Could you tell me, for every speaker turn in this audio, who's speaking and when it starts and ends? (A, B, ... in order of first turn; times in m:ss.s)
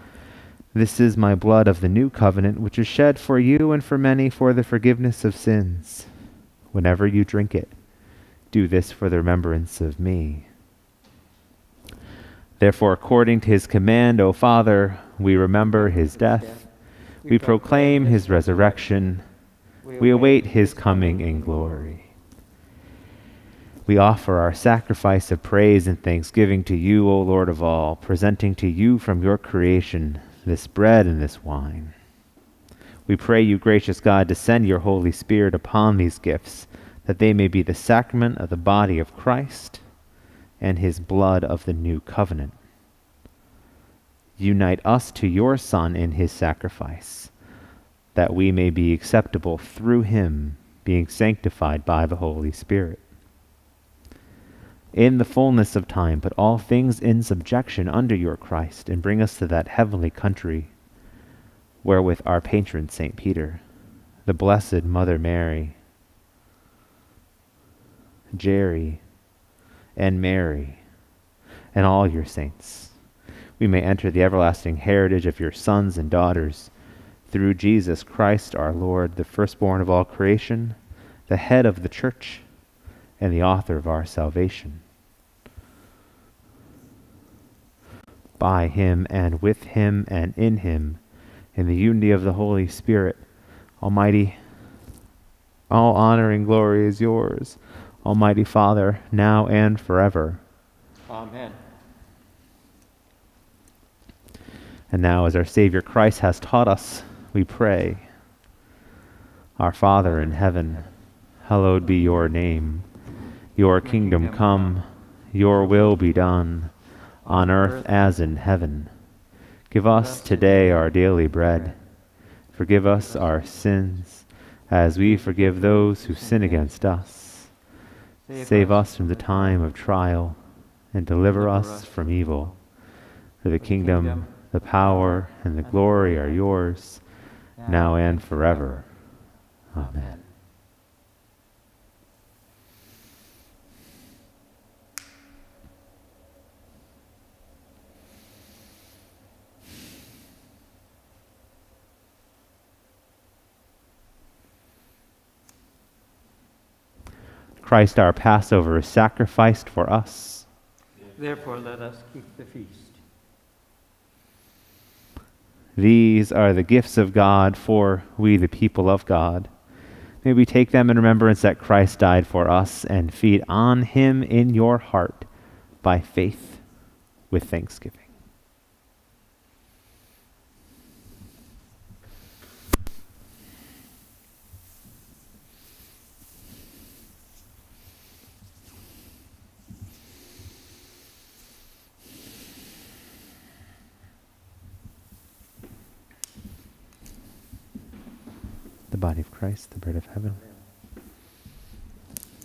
0:00.7-0:06.1 A
0:06.7-0:07.7 A
0:08.5-0:10.5 A
0:12.6-0:16.6 A
0:15.6-0:16.7 B
0:17.2-0:19.1 B
0:17.3-0:19.3 A
0:19.8-0:22.0 B
0:20.0-0:22.1 A
0:23.9-0:31.9 A
0:33.1-0:39.8 A
0:40.6-0:42.6 A
0:44.4-0:47.3 A
0:48.1-0:53.0 A
0:54.9-1:00.7 A
1:01.8-1:03.6 A
1:04.3-1:05.8 A
1:08.4-1:09.0 A
1:10.0-1:10.8 A
1:11.7-1:12.9 A
1:13.6-1:16.7 A
1:17.3-1:20.8 A
1:21.3-1:22.4 A
1:23.2-1:24.8 A
1:28.4-1:31.0 A
1:31.6-1:33.2 A
1:33.8-1:34.4 A
1:35.7-1:40.4 A
1:41.1-1:41.6 B
1:44.9-1:48.1 A
1:49.6-1:50.9 A
1:50.0-1:50.9 B
1:51.4-1:52.9 A
1:53.6-1:56.7 A
1:53.7-1:54.8 B
1:55.4-1:56.2 B
1:57.2-1:58.2 B
1:57.3-1:58.9 A
1:59.7-2:01.8 A
1:59.9-2:01.7 B
2:02.5-2:07.5 A
2:02.8-2:03.7 B
2:05.0-2:06.7 B
2:08.3-2:09.7 B
2:08.4-2:10.4 A
2:10.9-2:12.5 A
2:11.3-2:12.6 B
2:13.4-2:17.0 A
2:13.6-2:16.4 B
2:17.6-2:18.9 B
2:17.7-2:18.9 A
2:19.7-2:20.1 A
2:19.8-2:20.3 B
2:37.6-2:40.5 A
2:41.2-2:43.0 B
2:45.8-2:49.5 A
2:50.2-2:55.3 A
2:55.8-2:56.6 A
2:57.3-2:58.1 A
3:18.9-3:20.4 A